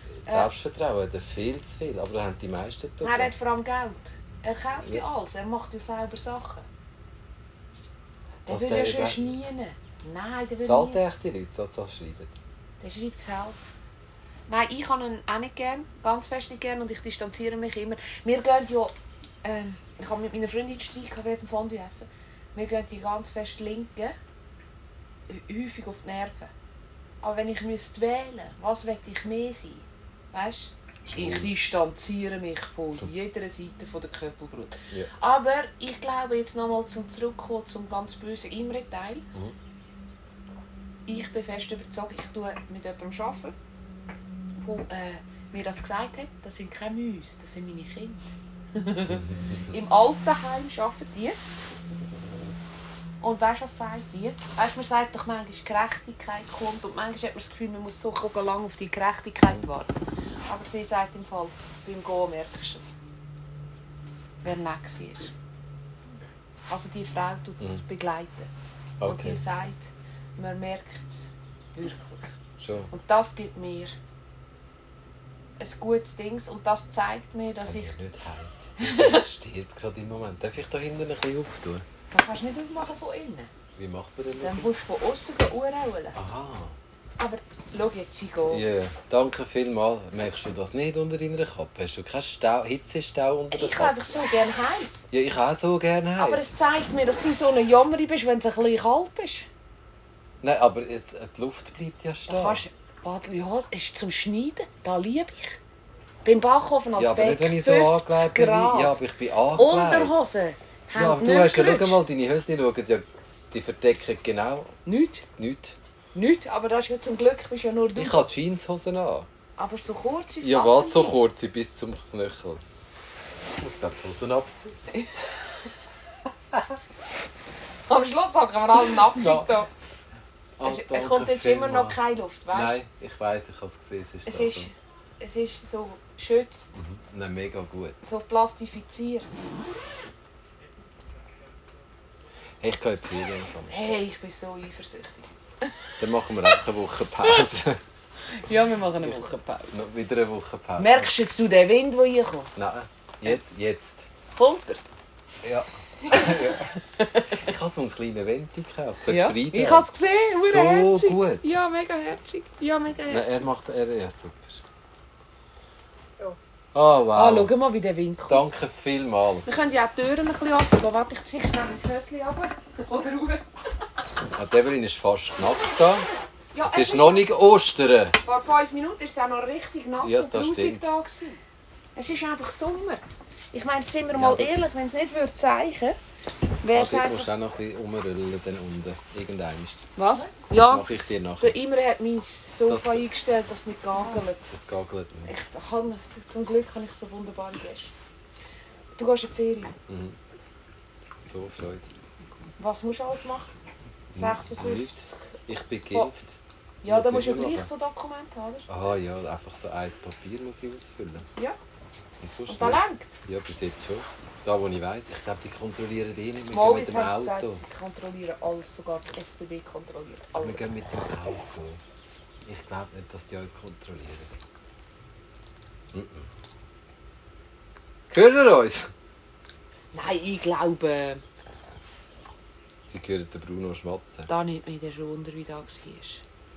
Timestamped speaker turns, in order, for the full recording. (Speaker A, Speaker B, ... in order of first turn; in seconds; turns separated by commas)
Speaker A: 0.2-3.3, Speaker B: 0.3-0.5, Speaker B: 3.0-6.7, Speaker A: 8.5-9.3, Speaker B: 8.5-11.0, Speaker A: 10.7-12.3, Speaker B: 12.8-13.6, Speaker B: 14.5-18.9, Speaker B: 19.4-24.1, Speaker B: 25.3-26.5, Speaker B: 27.2-39.3, Speaker A: 31.1-31.5, Speaker B: 41.1-43.5, Speaker B: 44.6-51.4, Speaker A: 49.1-49.6, Speaker B: 53.2-63.0, Speaker B: 64.4-65.3, Speaker B: 66.7-68.5, Speaker A: 69.0-69.4, Speaker B: 69.0-72.4, Speaker A: 72.6-72.9, Speaker B: 72.9-74.0, Speaker B: 75.6-77.9, Speaker A: 77.6-81.8, Speaker B: 78.8-79.2, Speaker B: 82.1-83.5, Speaker A: 83.8-84.7, Speaker B: 84.4-86.2, Speaker A: 86.2-86.8, Speaker B: 87.2-88.7, Speaker A: 88.5-94.0, Speaker B: 93.5-95.1, Speaker A: 95.1-96.5, Speaker B: 96.2-99.5, Speaker A: 100.4-102.6, Speaker B: 102.3-105.6, Speaker B: 106.2-109.0, Speaker A: 107.0-110.1, Speaker B: 109.5-112.0, Speaker A: 111.0-114.8, Speaker B: 114.9-115.3, Speaker A: 115.4-115.8, Speaker B: 116.1-118.2, Speaker A: 118.0-119.3, Speaker B: 119.6-121.2, Speaker A: 120.4-122.6, Speaker A: 123.6-124.8, Speaker B: 127.9-129.7, Speaker A: 129.0-129.6, Speaker A: 130.6-132.0, Speaker B: 130.6-132.8, Speaker A: 132.5-134.7, Speaker B: 134.3-136.8, Speaker A: 136.8-138.0, Speaker B: 138.0-139.5, Speaker A: 142.6-144.0, Speaker B: 143.7-146.0, Speaker A: 146.0-147.8, Speaker B: 148.3-149.8, Speaker A: 149.7-151.1, Speaker B: 150.8-152.5, Speaker A: 152.6-154.1, Speaker B: 154.3-154.8, Speaker A: 155.4-156.8, Speaker B: 156.1-157.5, Speaker A: 157.3-161.5, Speaker B: 159.1-163.5, Speaker A: 163.1-164.6, Speaker A: 166.7-167.5, Speaker B: 167.1-168.4, Speaker A: 168.3-169.5, Speaker B: 169.5-173.4, Speaker A: 174.3-176.1, Speaker B: 176.5-177.3, Speaker A: 176.6-178.2, Speaker B: 178.2-181.4, Speaker A: 180.0-180.9, Speaker B: 181.9-186.0, Speaker A: 184.1-184.5, Speaker B: 186.6-187.3, Speaker A: 186.7-189.9, Speaker B: 190.0-190.9, Speaker A: 190.6-191.6, Speaker B: 191.4-194.5, Speaker A: 192.7-193.1, Speaker A: 194.4-195.3, Speaker B: 195.2-197.9, Speaker B: 199.0-199.7, Speaker A: 199.9-200.2, Speaker A: 201.2-201.9, Speaker B: 202.6-203.5, Speaker A: 204.1-207.7, Speaker B: 204.1-205.4, Speaker B: 206.8-208.7, Speaker A: 208.7-211.3, Speaker A: 212.2-217.6, Speaker B: 212.5-213.2, Speaker B: 216.5-221.1, Speaker A: 220.4-221.8, Speaker A: 222.4-224.4, Speaker A: 225.9-226.3, Speaker A: 228.1-228.9, Speaker B: 229.9-231.2, Speaker A: 232.9-234.3, Speaker B: 234.3-236.2